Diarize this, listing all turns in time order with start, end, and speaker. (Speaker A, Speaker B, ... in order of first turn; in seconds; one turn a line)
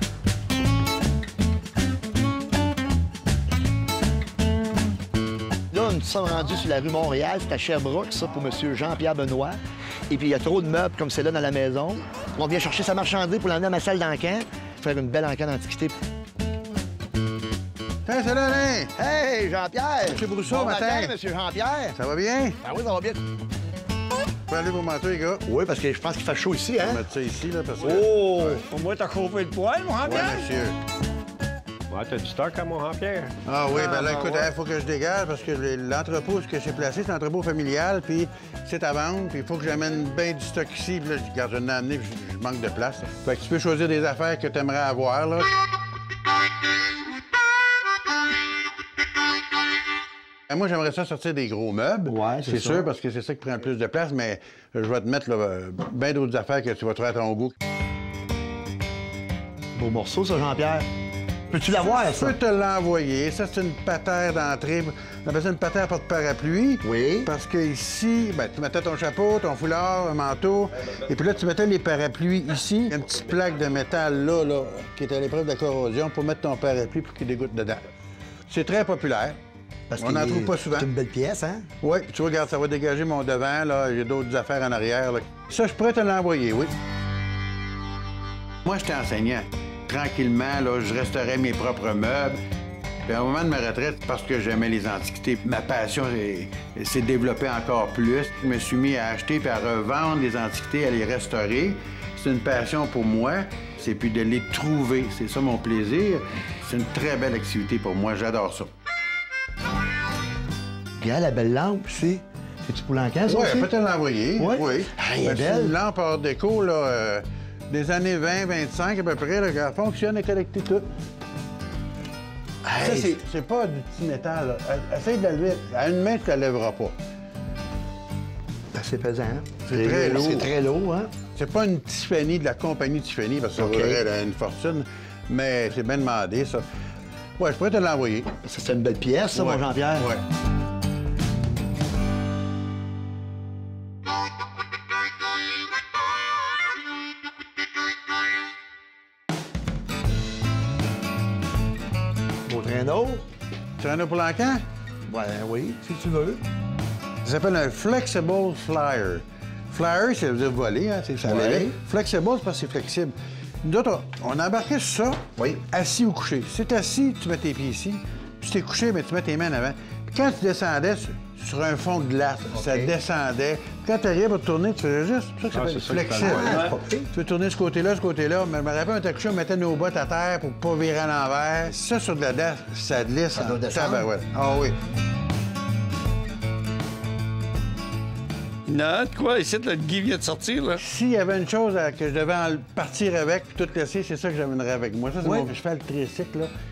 Speaker A: 5.7-16.0
Speaker B: 18.1-18.9
Speaker A: 19.0-22.0
Speaker B: 20.1-21.1
Speaker B: 22.0-22.6
Speaker A: 22.6-23.2
Speaker B: 24.5-25.4
Speaker A: 25.5-27.0
Speaker B: 26.8-28.6
Speaker A: 27.9-28.5
Speaker C: 28.6-30.5
Speaker B: 30.0-30.8
Speaker D: 31.9-33.3
Speaker B: 33.5-45.5
Speaker C: 33.9-34.2
Speaker B: 50.5-57.5
Speaker A: 52.1-52.9
Speaker A: 59.8-60.9
Speaker A: 61.5-62.4
Speaker B: 62.0-77.8
Speaker A: 66.8-67.3
Speaker B: 78.5-79.4
Speaker A: 79.9-81.7
Speaker B: 80.0-80.9
Speaker B: 81.8-86.7
Speaker B: 88.6-92.4
Speaker B: 93.1-108.7
Speaker A: 111.0-113.7
Speaker B: 113.3-120.9
Speaker A: 114.4-115.8
Speaker B: 122.7-127.0
Speaker A: 122.7-123.2
Speaker A: 128.7-131.1
Speaker B: 129.7-130.5
Speaker B: 131.3-136.7
Speaker A: 133.6-134.0
Speaker B: 137.4-138.3
Speaker A: 138.4-140.1
Speaker B: 139.3-140.2
Speaker A: 152.5-153.2
Speaker B: 153.8-154.6
Speaker A: 155.1-156.4
Speaker B: 157.2-184.8
Speaker A: 161.2-161.8
Speaker A: 172.5-172.9
Speaker D: 175.5-176.7
Speaker A: 176.2-177.1
Speaker A: 183.3-184.1
Speaker C: 188.7-190.8
Speaker B: 190.8-196.5
Speaker A: 195.2-195.5